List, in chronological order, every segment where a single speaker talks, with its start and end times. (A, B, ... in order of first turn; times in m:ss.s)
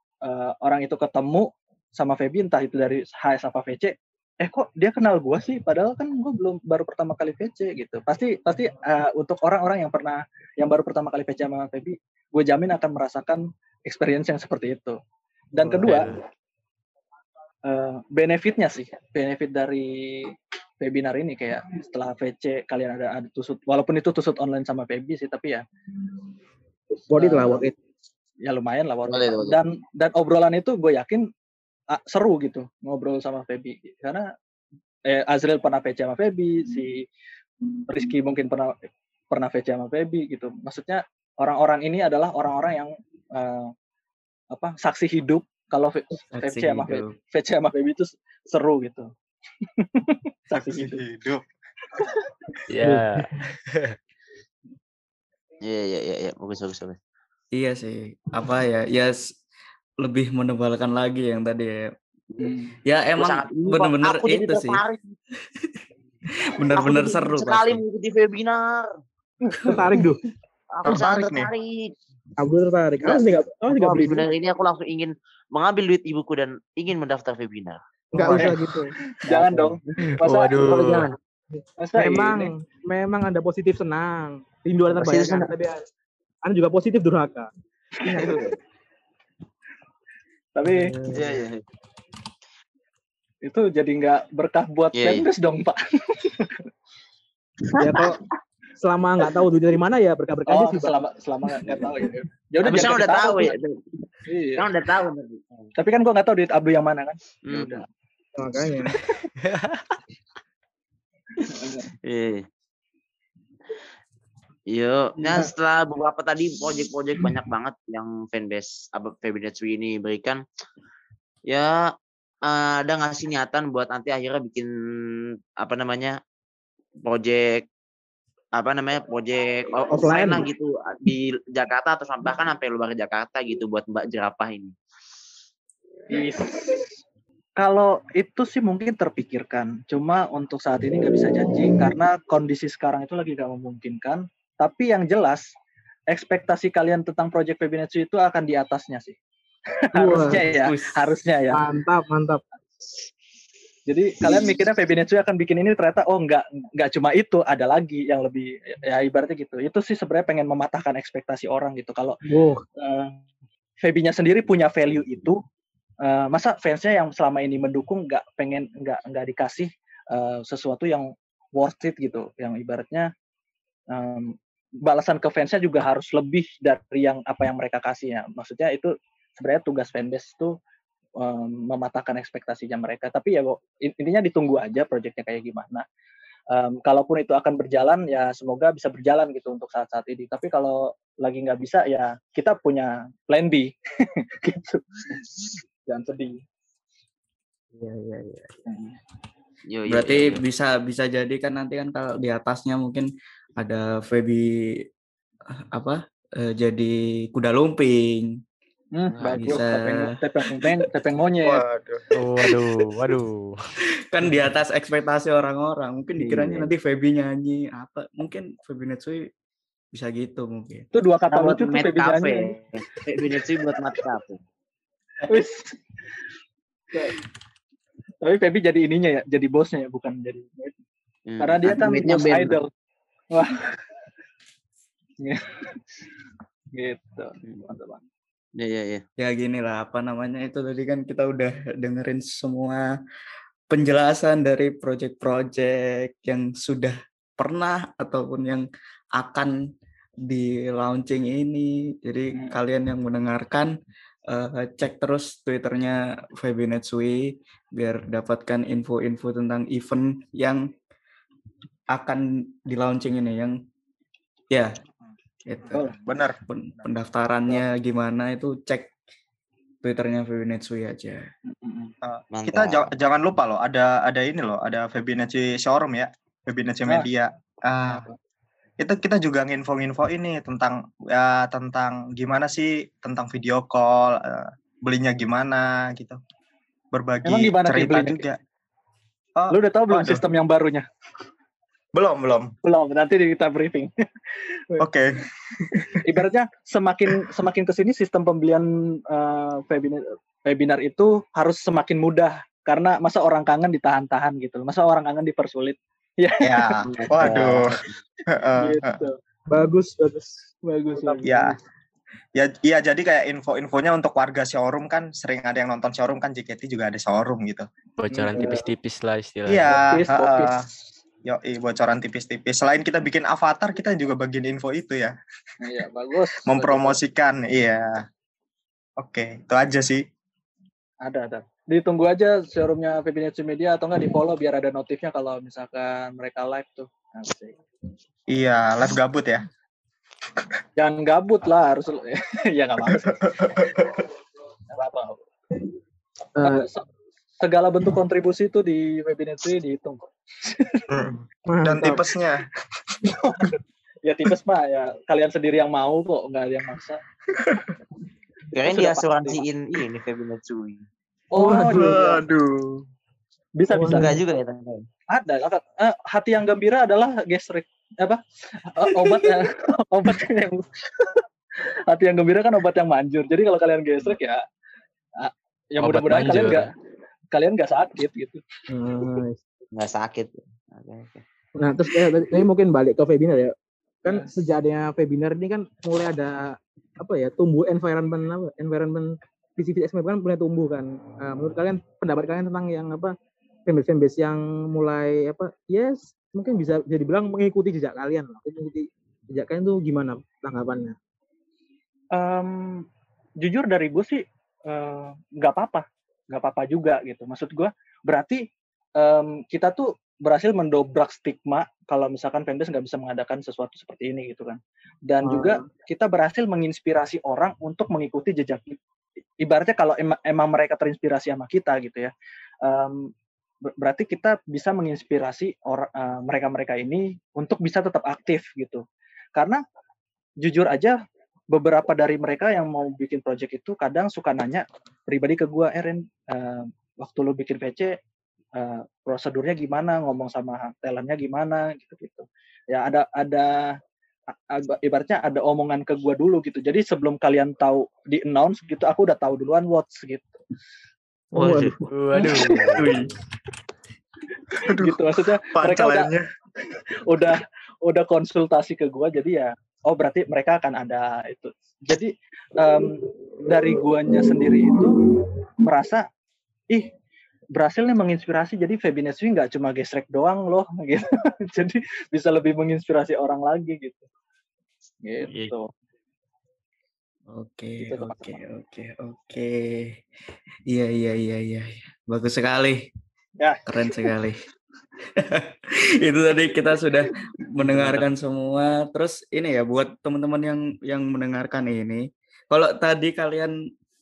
0:00.2-0:15.0 A
0:15.5-0:16.2 A
0:17.6-0:25.6 A
0:27.1-0:27.7 B
0:27.2-0:27.6 A
0:28.4-0:31.3 A
0:29.1-0:29.6 C
0:31.9-0:34.3 A
0:35.0-0:37.0 A
0:37.8-0:43.7 A
0:44.5-0:49.1 A
0:46.3-0:47.2 D
0:49.8-0:51.0 A
0:50.6-0:51.4 E
0:52.7-0:54.0 F
0:55.6-0:57.0 C
0:57.5-0:59.2 D
1:00.0-1:01.9 D
1:02.4-1:02.7 A
1:02.8-1:04.8 D
1:03.2-1:05.1 C
1:06.3-1:07.8 D
1:06.7-1:09.0 C
1:09.6-1:10.2 B
1:10.7-1:11.9 C
1:10.8-1:11.5 E
1:12.4-1:14.2 B
1:13.0-1:17.8 C
1:18.1-1:18.9 B
1:18.3-1:18.7 A
1:19.2-1:20.9 A
1:19.3-1:21.2 C
1:20.0-1:21.1 F
1:21.8-1:22.5 A
1:22.0-1:25.8 B
1:25.0-1:25.5 C
1:26.4-1:27.5 B
1:28.0-1:28.4 A
1:28.1-1:28.5 C
1:30.5-1:31.0 A
1:30.6-1:31.4 B
1:31.1-1:31.6 C
1:33.4-1:36.6 A
1:34.9-1:35.2 C
1:37.8-1:38.2 B
1:38.8-1:41.0 B
1:40.5-1:43.6 A
1:42.6-1:43.8 C
1:44.2-1:44.7 A
1:44.6-1:45.4 C
1:45.7-1:47.8 A
1:47.4-1:47.8 C
1:48.4-1:48.9 B
1:49.4-1:49.9 F
1:51.4-1:51.9 A
1:52.0-1:52.4 C
1:54.7-2:00.4 C
2:01.5-2:01.8 C
2:02.4-2:06.2 C
2:07.0-2:07.6 C
2:08.5-2:14.7 C
2:09.9-2:10.4 B
2:16.1-2:16.9 A
2:17.6-2:25.5 A
2:26.1-2:29.2 A
2:29.9-2:31.6 A
2:29.9-2:30.4 B
2:30.5-2:31.1 D
2:31.5-2:32.4 B
2:33.9-2:42.2 A
2:42.2-2:42.6 B
2:42.8-2:43.2 A
2:43.8-2:45.4 A
2:46.0-2:53.1 A
2:53.9-3:00.5 A
3:01.2-3:05.8 A
3:06.5-3:16.4 A
3:17.7-3:18.6 D
3:18.7-3:19.0 A
3:19.7-3:20.4 C
3:19.9-3:24.5 D
3:25.7-3:28.3 D
3:28.9-3:31.6 A
3:29.2-3:29.5 C
3:29.3-3:30.2 D
3:31.4-3:32.0 E
3:32.1-3:33.5 F
3:34.1-3:39.3 D
3:36.2-3:36.7 C
3:39.9-3:40.9 D
3:40.9-3:42.6 A
3:41.3-3:44.4 C
3:43.4-3:43.7 A
3:45.2-3:45.8 A
3:46.9-3:47.2 A
3:48.2-3:50.7 A
3:51.3-3:52.6 C
3:51.4-3:52.7 A
3:53.3-3:53.8 A
3:55.2-3:55.8 A
3:56.7-3:58.0 A
3:58.6-3:59.0 C
3:59.2-4:02.8 D
4:03.7-4:08.6 D
4:09.2-4:09.5 D
4:10.3-4:13.7 D
4:14.3-4:17.2 D
4:17.8-4:20.6 D
4:21.9-4:23.6 D
4:25.4-4:28.9 D
4:25.7-4:26.4 E
4:29.8-4:31.2 D
4:31.5-4:31.9 A
4:32.0-4:38.0 E
4:32.3-4:32.9 C
4:37.8-4:38.2 A
4:38.8-4:46.2 E
4:46.9-4:48.4 E
4:47.2-4:48.2 A
4:49.4-4:50.2 E
4:49.5-4:50.9 A
4:51.9-4:52.5 E
4:52.6-4:53.9 A
4:54.8-4:56.1 E
4:56.0-5:07.5 A
5:06.4-5:07.8 E
5:06.8-5:08.0 C
5:08.3-5:09.0 E
5:08.6-5:09.2 A
5:09.5-5:11.4 B
5:10.6-5:11.4 A
5:11.2-5:11.5 E
5:12.3-5:17.7 E
5:18.0-5:19.8 F
5:18.1-5:18.6 A
5:19.4-5:20.6 E
5:19.7-5:20.6 A
5:21.2-5:25.2 E
5:25.6-5:27.0 A
5:26.4-5:28.0 E
5:29.0-5:30.0 E
5:31.0-5:37.6 A
5:38.3-5:39.4 E
5:40.8-5:43.6 A
5:42.9-5:44.0 E
5:44.7-5:45.2 A
5:46.3-5:46.7 B
5:46.4-5:46.8 A
5:47.4-5:50.8 A
5:50.9-5:52.4 E
5:51.5-5:52.0 B
5:53.1-5:57.0 A
5:57.4-5:57.7 E
5:58.5-6:00.8 C
5:58.6-5:59.4 A
6:01.3-6:02.2 A
6:01.3-6:02.0 B
6:01.6-6:02.8 E
6:03.6-6:04.2 A
6:03.7-6:04.1 B
6:03.9-6:04.9 C
6:05.1-6:11.2 A
6:11.9-6:14.4 A
6:15.2-6:16.7 A
6:15.8-6:16.7 F
6:17.3-6:18.4 A
6:18.7-6:19.4 B
6:19.7-6:21.2 C
6:21.6-6:33.1 B
6:33.7-6:41.0 B
6:42.1-6:42.8 A
6:43.4-6:58.8 A
6:55.2-6:55.7 B
6:59.4-7:02.1 A
7:02.6-7:03.1 A
7:03.7-7:08.8 A
7:09.4-7:09.6 A
7:10.4-7:11.0 A
7:11.5-7:18.0 A
7:18.6-7:23.8 A
7:24.3-7:30.3 A
7:31.3-7:31.9 B
7:31.4-7:33.0 F
7:31.4-7:31.7 C
7:32.1-7:32.7 A
7:32.8-7:33.1 E
7:34.6-7:35.0 E
7:34.7-7:36.1 A
7:35.5-7:36.2 E
7:37.0-7:45.0 A
7:45.6-7:46.0 A
7:47.6-7:54.0 A
7:55.0-7:55.7 A
7:55.3-7:55.6 C
7:57.3-8:00.0 D
7:57.8-7:58.3 A
8:00.7-8:02.8 D
8:03.4-8:04.1 A
8:03.7-8:04.4 D
8:05.2-8:13.5 D